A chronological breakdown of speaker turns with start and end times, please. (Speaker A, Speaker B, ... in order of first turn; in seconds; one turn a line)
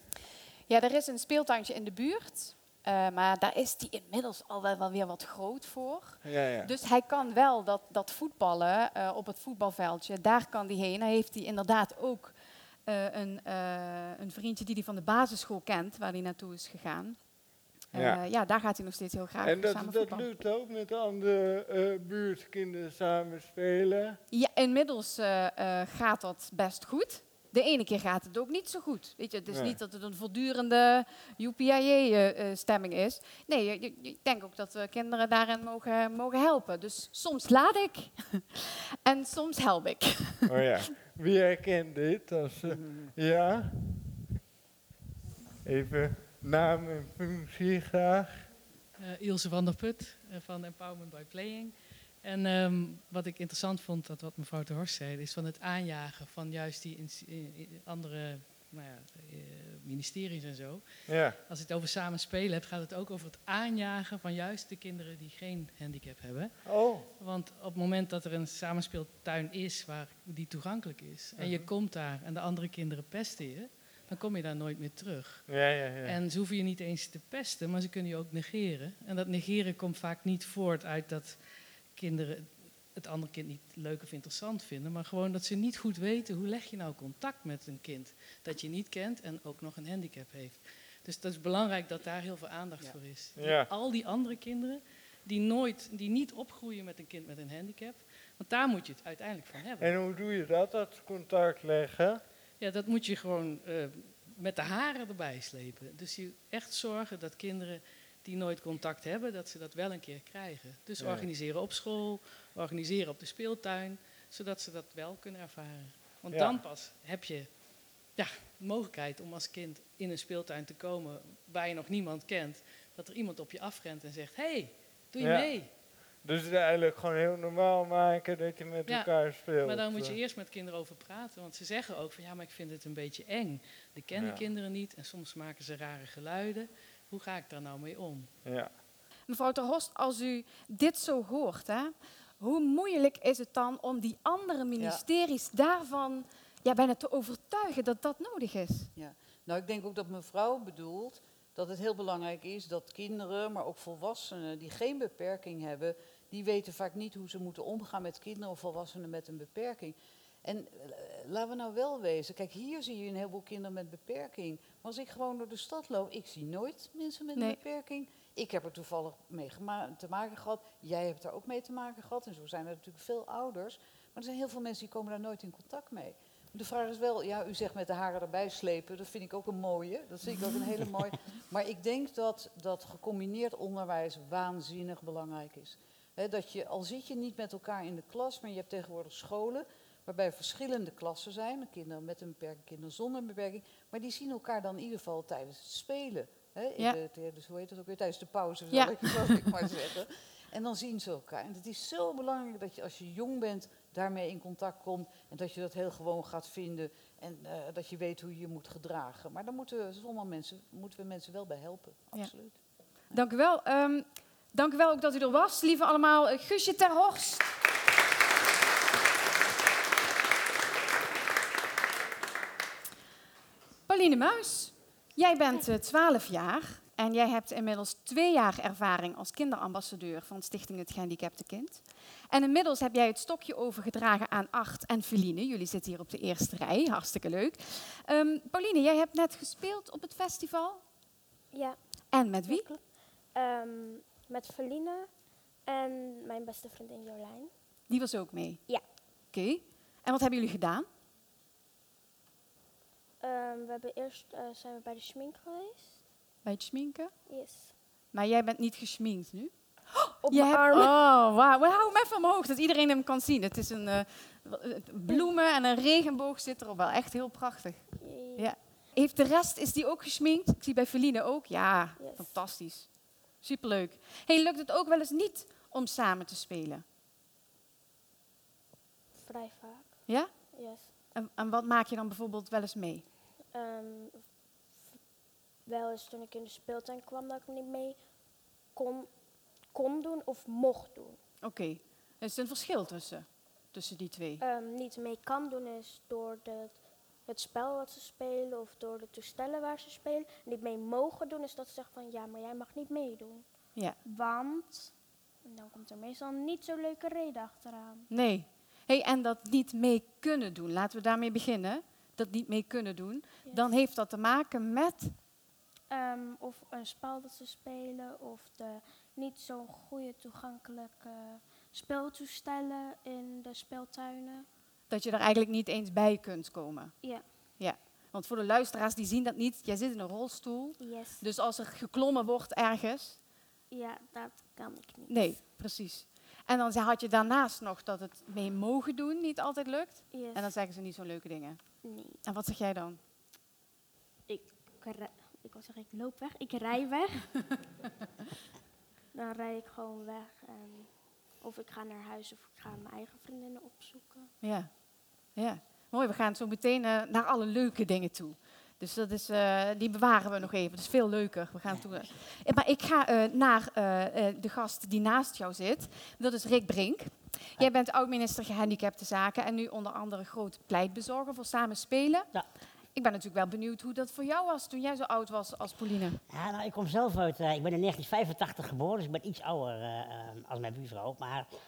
Speaker A: 0.7-12.3
Speaker B: 6.2-6.7
Speaker A: 12.8-17.2
Speaker A: 17.9-20.3
Speaker B: 17.9-18.2
Speaker B: 19.4-24.2
Speaker A: 24.3-40.5
Speaker B: 29.5-29.8
Speaker B: 40.5-44.0
Speaker C: 42.7-43.1
Speaker B: 45.6-48.5
Speaker D: 49.0-100.0
Speaker B: 61.1-61.4
Speaker B: 66.6-67.1
Speaker B: 71.4-71.7
Speaker B: 75.5-76.2
Speaker B: 93.3-93.7
Speaker B: 99.8-102.2
Speaker D: 102.6-125.7
Speaker B: 111.0-111.3
Speaker B: 116.3-116.6
Speaker B: 125.2-125.6
Speaker B: 126.2-130.2
Speaker D: 128.8-138.3
Speaker B: 134.1-134.4
Speaker B: 138.4-138.7
Speaker A: 139.3-148.9
Speaker C: 148.9-212.6
Speaker A: 198.7-199.4
Speaker A: 213.1-217.5
Speaker A: 223.9-240.8
Speaker E: 241.5-241.8
Speaker A: 242.1-242.7
Speaker E: 242.5-247.5
Speaker A: 247.9-248.6
Speaker A: 249.3-250.9
Speaker E: 253.2-256.0
Speaker A: 256.4-257.1
Speaker E: 257.3-257.7
Speaker A: 258.1-276.8
Speaker E: 260.2-261.0
Speaker E: 268.0-268.5
Speaker E: 272.0-272.3
Speaker E: 279.1-280.9
Speaker A: 280.1-283.1
Speaker E: 283.5-284.3
Speaker E: 285.6-288.0
Speaker E: 288.7-289.1
Speaker E: 289.7-291.2
Speaker A: 291.4-294.4
Speaker E: 294.4-303.4
Speaker E: 304.0-308.1
Speaker A: 308.1-315.1
Speaker E: 313.4-313.7
Speaker E: 315.9-324.5
Speaker A: 324.9-333.2
Speaker E: 327.0-327.4
Speaker E: 330.8-331.2
Speaker E: 333.7-335.4
Speaker A: 335.1-343.0
Speaker E: 340.1-340.5
Speaker E: 341.8-342.2
Speaker E: 344.3-347.4
Speaker E: 349.1-354.3
Speaker A: 354.4-354.8
Speaker A: 355.3-372.3
Speaker A: 372.9-376.2
Speaker F: 376.3-381.5